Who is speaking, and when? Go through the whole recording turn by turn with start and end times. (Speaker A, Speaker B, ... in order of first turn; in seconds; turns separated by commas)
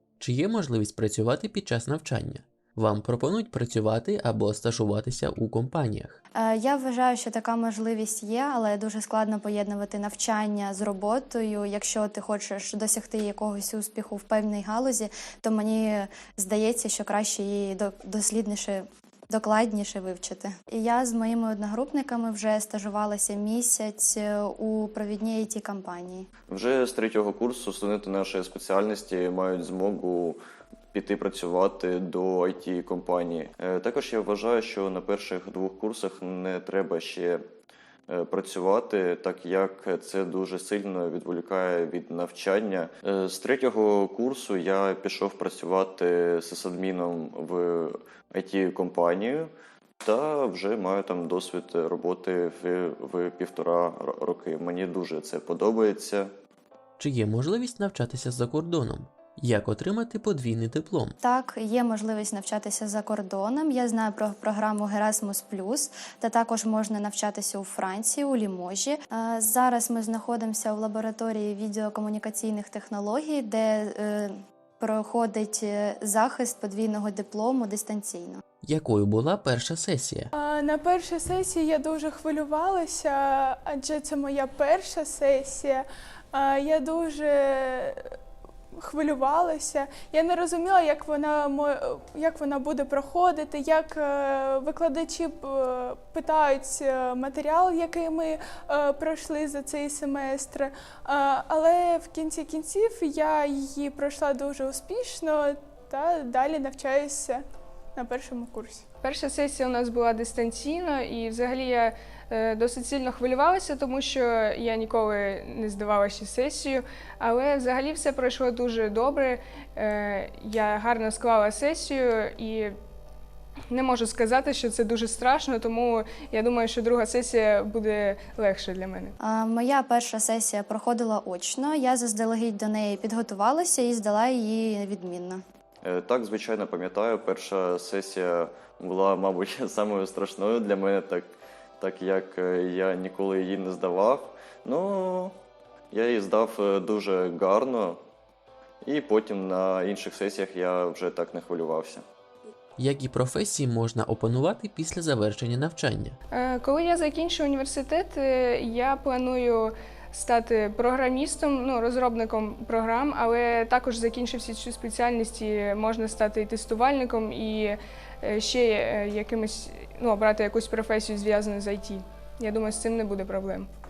Speaker A: 0.2-6.2, Speaker B: 6.3-26.3, Speaker C: 26.6-30.4, Speaker C: 30.9-37.4, Speaker C: 38.1-49.5, Speaker C: 50.0-56.2, Speaker A: 57.0-61.1, Speaker B: 61.2-78.4, Speaker A: 78.6-80.3, Speaker D: 80.3-88.1, Speaker D: 88.7-107.4, Speaker D: 108.0-108.8, Speaker E: 109.0-122.7, Speaker E: 123.7-129.1, Speaker B: 129.2-135.4, Speaker C: 135.9-145.3, Speaker C: 145.9-147.9, Speaker C: 148.8-152.0, Speaker A: 152.8-156.2, Speaker E: 156.3-173.7